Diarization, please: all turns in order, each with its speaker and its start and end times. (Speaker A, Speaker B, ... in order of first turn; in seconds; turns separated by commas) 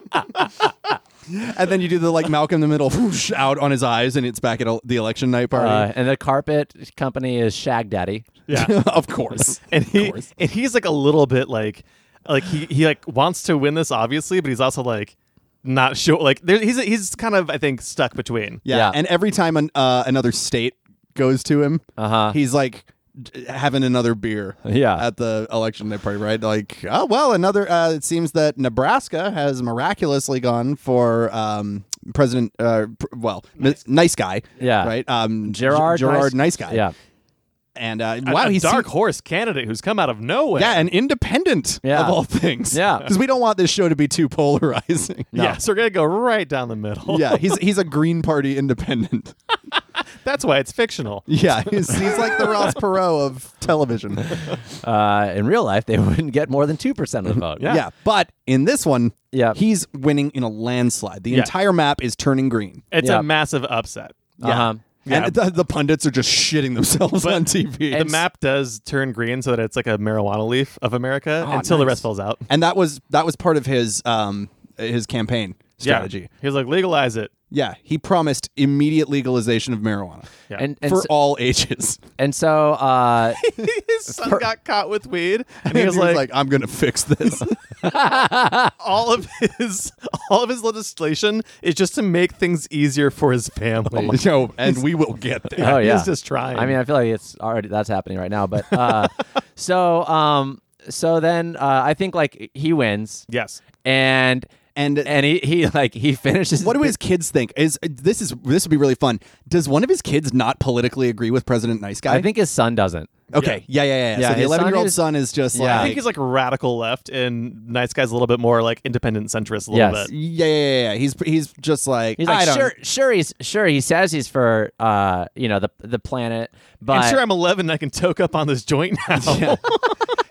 Speaker A: 1.3-5.9, Speaker B: 5.5-8.3, Speaker C: 8.5-8.7, Speaker A: 8.5-10.3, Speaker C: 9.3-18.6, Speaker A: 18.6-36.9, Speaker B: 18.7-19.0, Speaker B: 22.0-22.4, Speaker B: 24.6-25.1, Speaker B: 34.6-36.9, Speaker A: 37.8-38.9, Speaker C: 38.2-40.9, Speaker A: 40.5-45.6, Speaker B: 41.8-43.1, Speaker C: 45.3-47.5, Speaker A: 47.1-49.3, Speaker C: 50.2-51.3, Speaker A: 51.3-54.5, Speaker C: 52.0-52.5, Speaker B: 54.8-57.8, Speaker C: 57.6-57.8, Speaker A: 57.6-62.9, Speaker B: 59.3-59.6, Speaker C: 62.9-64.3, Speaker B: 63.0-63.3, Speaker B: 64.4-64.8, Speaker A: 64.4-68.2, Speaker C: 65.0-65.4, Speaker C: 67.2-72.5, Speaker A: 71.4-76.3, Speaker C: 75.8-77.3, Speaker A: 77.5-80.3, Speaker B: 80.6-81.1, Speaker A: 80.8-82.0, Speaker B: 82.2-83.4, Speaker C: 83.4-86.3, Speaker B: 84.1-84.5, Speaker A: 85.6-87.6, Speaker B: 87.8-88.7, Speaker C: 88.8-94.2, Speaker B: 93.9-94.2, Speaker A: 93.9-95.8, Speaker C: 95.5-96.8, Speaker B: 95.6-103.3, Speaker C: 103.3-103.6, Speaker B: 103.8-104.5, Speaker A: 104.7-105.1, Speaker B: 105.0-107.0, Speaker A: 106.6-112.3, Speaker B: 112.0-113.1, Speaker A: 113.3-116.0, Speaker C: 113.3-113.6, Speaker B: 114.1-115.0, Speaker B: 115.5-116.0, Speaker C: 115.6-120.1, Speaker B: 119.7-120.1, Speaker A: 120.0-122.7, Speaker B: 122.2-127.2, Speaker C: 126.9-130.1, Speaker A: 129.2-129.6